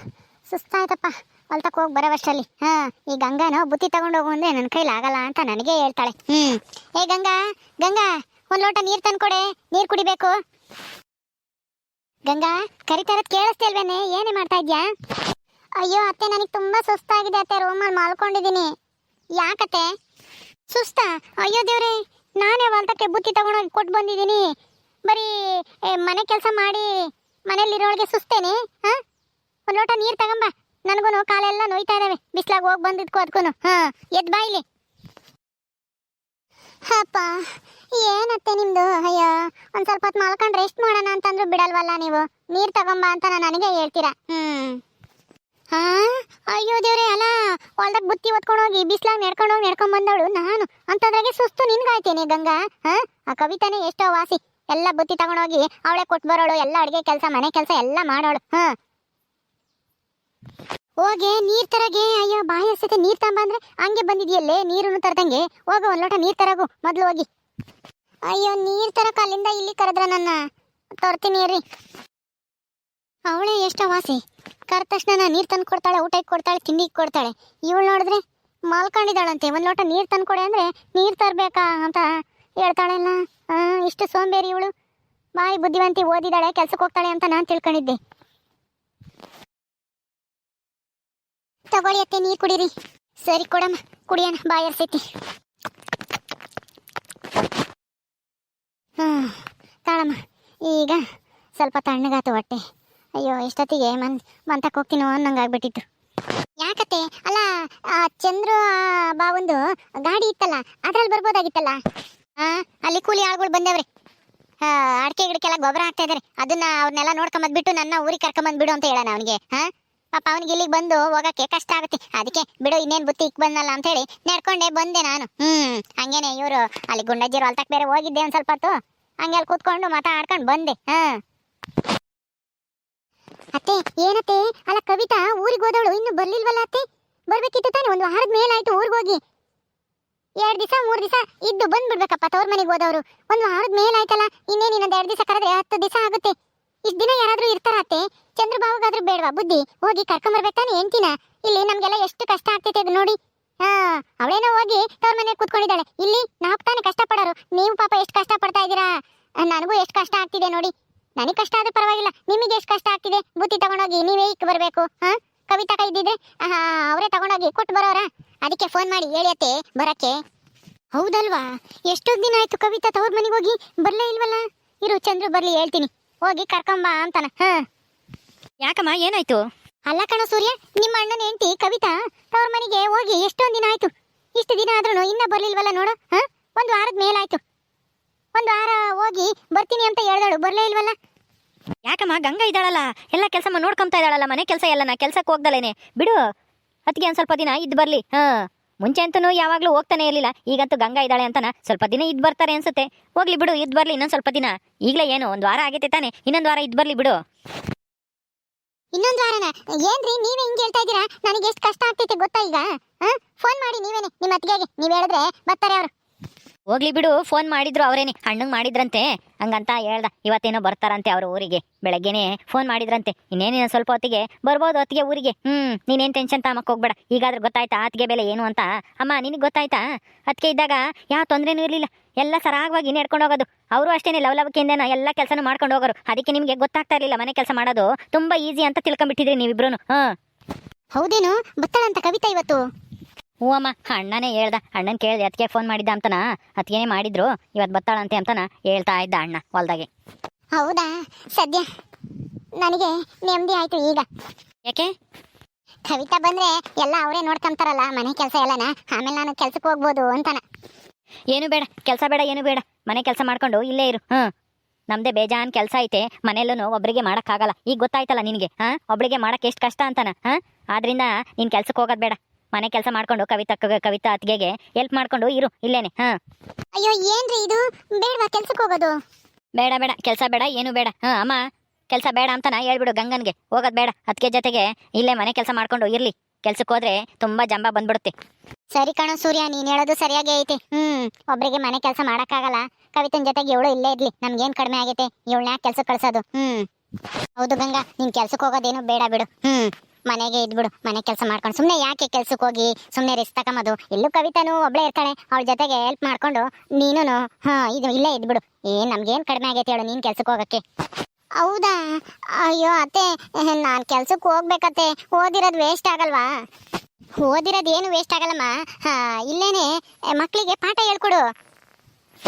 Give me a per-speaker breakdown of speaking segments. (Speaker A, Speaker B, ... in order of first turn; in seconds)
Speaker A: 0.5-10.3, 12.3-14.8, 15.8-18.7, 19.4-19.9, 20.7-24.4, 25.1-26.9, 27.5-29.0, 29.7-34.6, 36.9-37.4, 38.0-44.8, 45.7-58.7, 61.0-67.3, 68.3-70.4, 71.0-71.6, 73.3-82.1, 82.6-84.7, 85.4-88.0, 91.7-92.7, 93.2-95.0, 99.0-99.3, 99.8-101.0, 101.6-102.6, 103.2-105.8, 106.6-111.8, 112.4-113.8, 114.6-131.2, 133.5-139.2, 140.4-146.3, 146.8-158.9, 159.4-170.2, 170.9-177.6, 179.9-187.4, 188.3-190.9, 208.9-215.9, 240.9-242.6, 250.5-251.6, 252.6-254.0, 255.9-260.4, 276.8-278.9, 288.7-296.6, 297.4-310.6, 311.4-311.8, 312.3-316.3, 317.2-321.2
Speaker B: 178.6-179.4, 191.8-196.2, 196.9-207.2, 216.7-240.0, 243.4-249.9, 261.3-264.3, 264.9-276.1, 279.6-281.4, 281.9-288.1